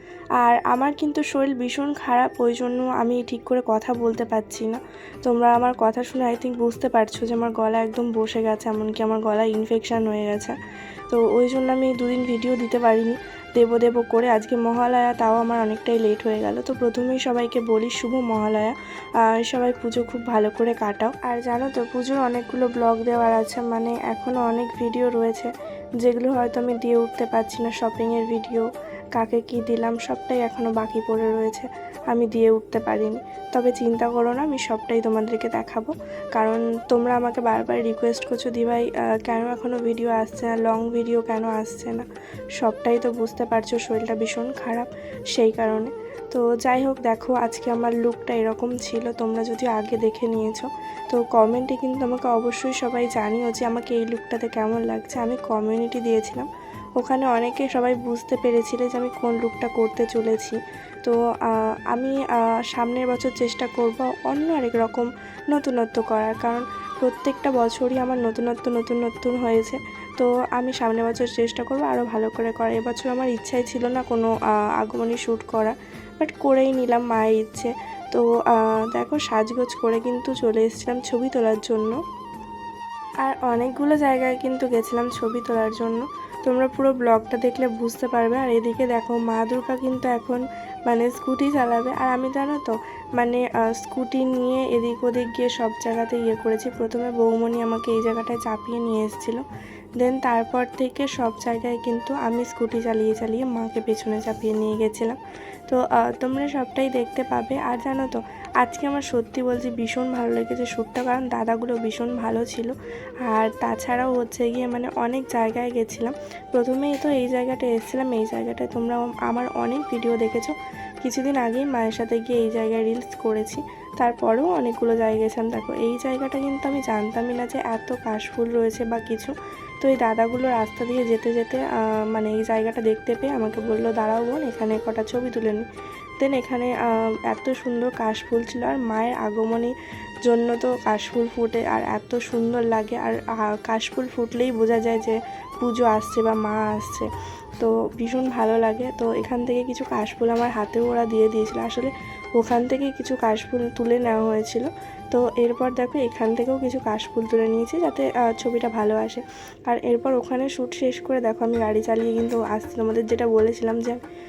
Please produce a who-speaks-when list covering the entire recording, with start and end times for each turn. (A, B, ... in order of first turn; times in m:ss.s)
0:00.4-0:10.6 A
0:11.1-1:22.0 A
1:23.2-1:39.4 A
1:40.0-1:52.7 A
1:53.2-2:15.7 A
2:16.2-2:19.7 A
2:20.3-2:27.1 A
2:27.6-2:44.0 A